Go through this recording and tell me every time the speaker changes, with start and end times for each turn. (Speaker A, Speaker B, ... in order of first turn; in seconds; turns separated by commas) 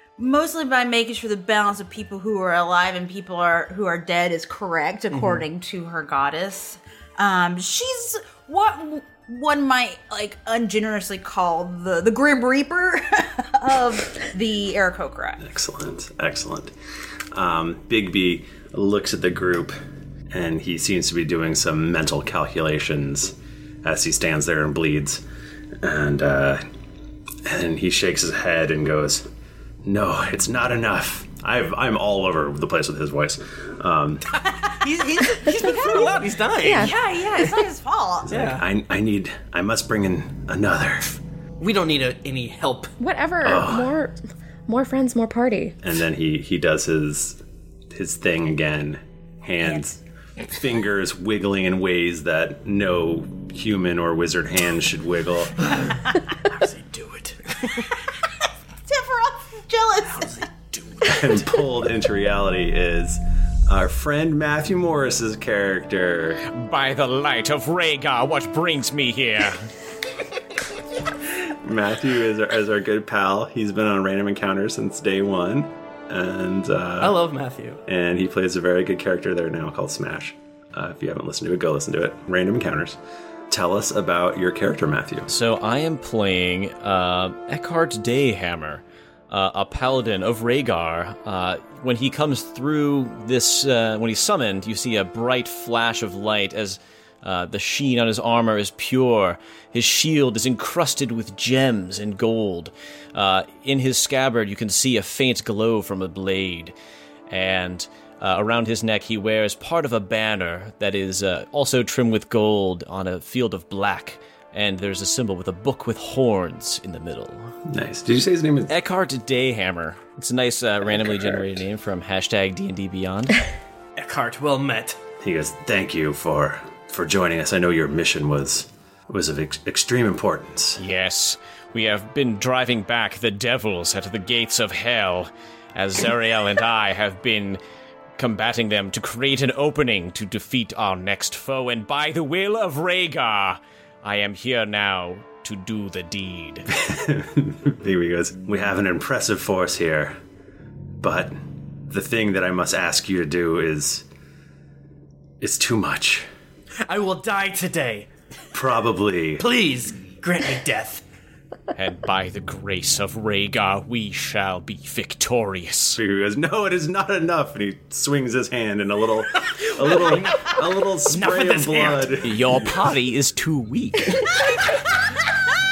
Speaker A: 0.2-15.4, Speaker B: 5.1-5.4, Speaker C: 15.4-16.7, Speaker C: 17.3-19.7, Speaker C: 20.3-25.2, Speaker C: 25.8-26.6, Speaker C: 27.4-29.2, Speaker C: 29.8-34.2, Speaker B: 34.8-36.9, Speaker A: 35.4-36.0, Speaker D: 35.5-37.0, Speaker A: 36.7-38.3, Speaker C: 38.3-41.2, Speaker B: 38.3-38.6, Speaker B: 41.6-42.9, Speaker D: 43.0-44.1, Speaker C: 43.4-43.9, Speaker D: 44.7-45.8, Speaker C: 45.8-47.4, Speaker C: 47.9-50.0, Speaker C: 50.5-55.5, Speaker B: 56.4-57.8, Speaker A: 58.9-60.5, Speaker B: 60.1-61.4, Speaker C: 61.0-66.4, Speaker E: 66.4-69.7, Speaker C: 71.6-77.1, Speaker B: 77.0-77.8, Speaker C: 77.9-83.0, Speaker C: 83.5-85.3, Speaker E: 85.3-106.7, Speaker E: 107.3-117.5, Speaker C: 117.7-118.8, Speaker E: 118.7-123.4, Speaker C: 121.0-121.3, Speaker B: 124.0-125.0, Speaker C: 125.2-130.8, Speaker E: 130.8-137.6, Speaker E: 138.2-146.7, Speaker C: 146.7-150.2, Speaker C: 151.0-154.0, Speaker C: 155.4-156.2, Speaker B: 156.9-158.1, Speaker C: 158.5-159.4, Speaker B: 159.4-161.0, Speaker E: 161.7-166.0, Speaker C: 165.9-172.8, Speaker B: 169.8-172.2, Speaker E: 172.2-174.3